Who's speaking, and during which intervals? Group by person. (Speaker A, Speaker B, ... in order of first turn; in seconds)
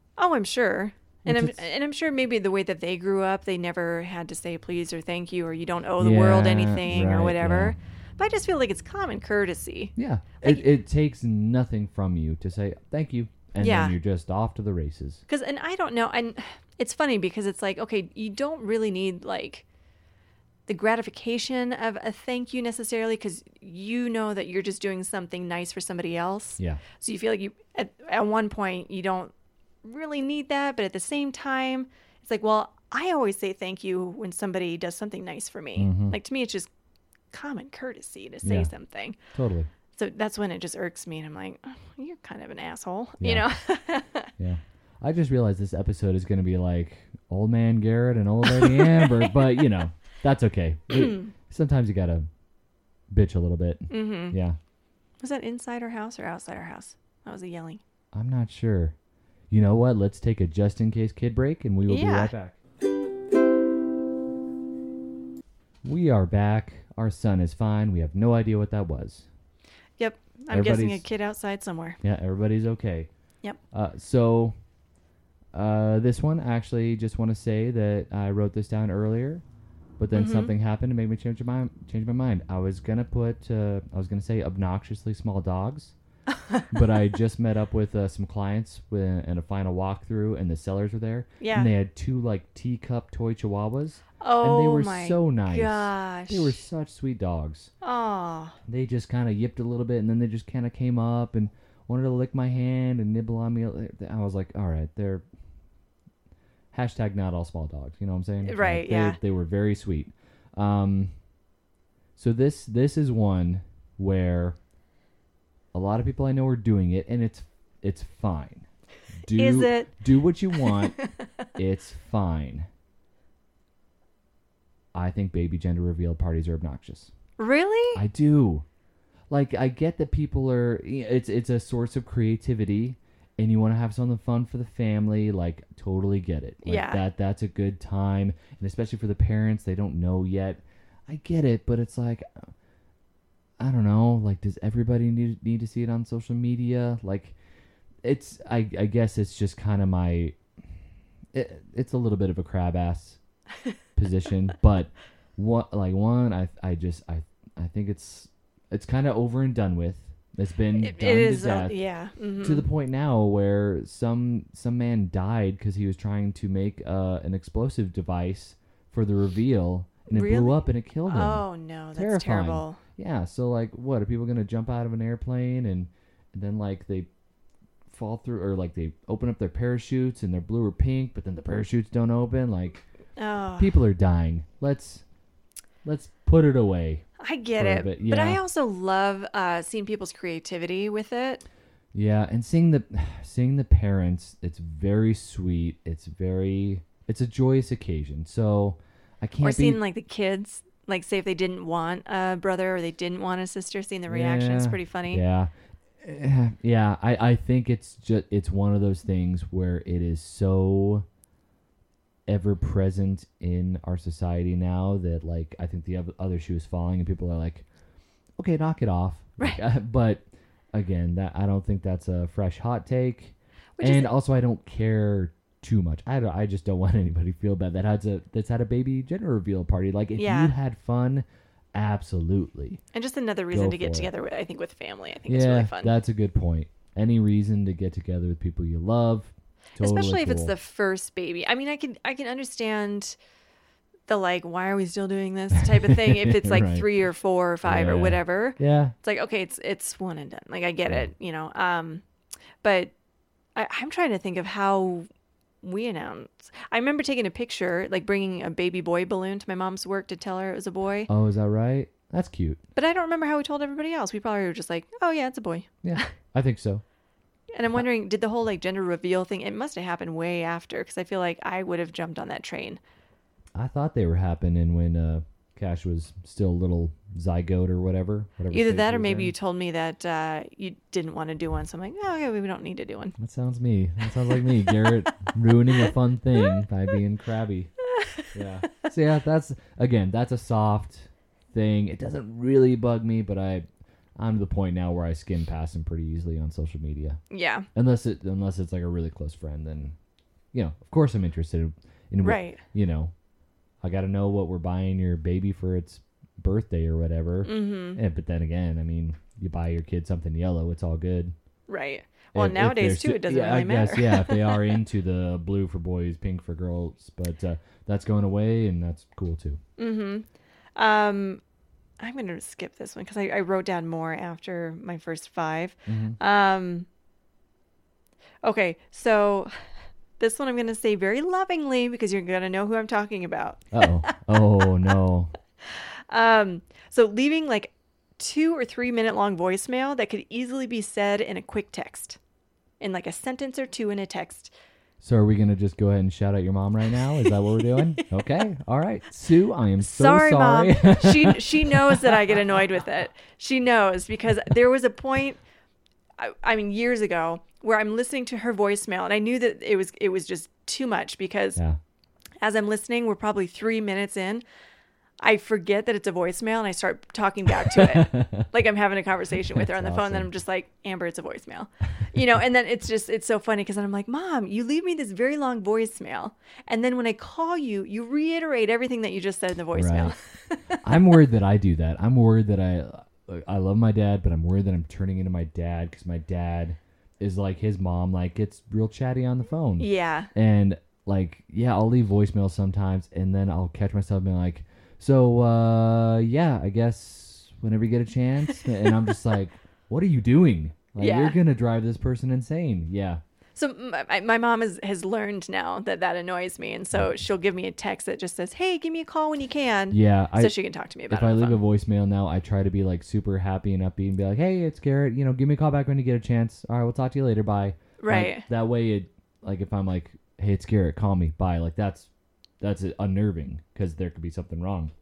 Speaker A: 0.2-10.6, 13.6-13.9, 15.3-19.6, 20.7-29.3, 29.8-36.7, 37.3-39.2, 39.9-44.3, 48.6-49.3, 50.9-51.3, 53.9-54.4, 55.2-57.8, 61.9-62.3, 70.0-72.0, 80.1-80.5, 86.3-86.7, 91.4-91.7, 94.2-96.6, 97.8-98.6, 108.4-109.2, 119.3-119.9, 120.5-121.2, 127.4-128.0, 136.6-137.0, 160.7-162.7, 170.1-172.8, 183.2-183.8, 187.2-191.4, 199.4-205.2, 223.8-224.1, 230.2-230.5, 232.9-235.9, 239.8-243.2, 244.1-252.0, 252.6-252.9, 253.5-255.1, 255.6-261.1, 262.7-266.1, 267.5-272.8, 278.5-283.1, 284.3-284.9, 287.9-288.9, 297.3-297.7, 302.2-302.6, 307.4-308.0, 311.7-314.7, 319.8-321.4, 322.0-326.9, 328.4-329.5, 330.2-334.1, 335.6-342.2, 342.8-344.5, 347.7-348.0, 349.8-355.4, 356.2-361.6, 362.4-364.4, 365.2-381.0, 389.8-390.3, 401.0-401.4, 403.6-411.6, 418.0-418.4
Speaker B: 1.2-1.6, 6.0-7.8, 9.9-15.2, 35.8-36.1, 38.4-38.7, 39.3-39.7, 43.2-43.5, 44.4-52.3, 53.1-54.6, 58.1-58.9, 59.5-62.6, 65.8-69.3, 70.5-71.0, 72.0-73.1, 73.7-74.5, 75.5-79.4, 80.0-85.9, 86.7-97.7, 98.7-105.2, 106.7-111.1, 112.2-114.6, 115.7-118.7, 119.2-121.0, 121.5-122.7, 124.9-127.1, 127.9-128.7, 129.3-142.5, 143.6-147.3, 148.0-150.4, 151.3-153.2, 153.9-161.8, 162.4-177.1, 177.8-182.8, 183.6-185.0, 185.8-187.1, 187.6-188.4, 191.9-199.8, 204.1-211.0, 212.3-217.7, 218.4-232.8, 233.5-234.1, 235.3-240.5, 245.7-246.8, 247.6-248.9, 261.1-262.6, 265.8-266.8, 273.5-279.3, 283.2-287.7, 288.3-293.6, 294.1-297.2, 297.7-299.9, 300.5-303.1, 303.8-311.3, 312.3-319.6, 325.9-326.2, 333.7-335.3, 345.0-352.5, 367.6-368.5, 369.5-370.3, 379.7-380.1, 380.8-403.2, 409.9-410.6, 411.1-422.1, 422.6-424.9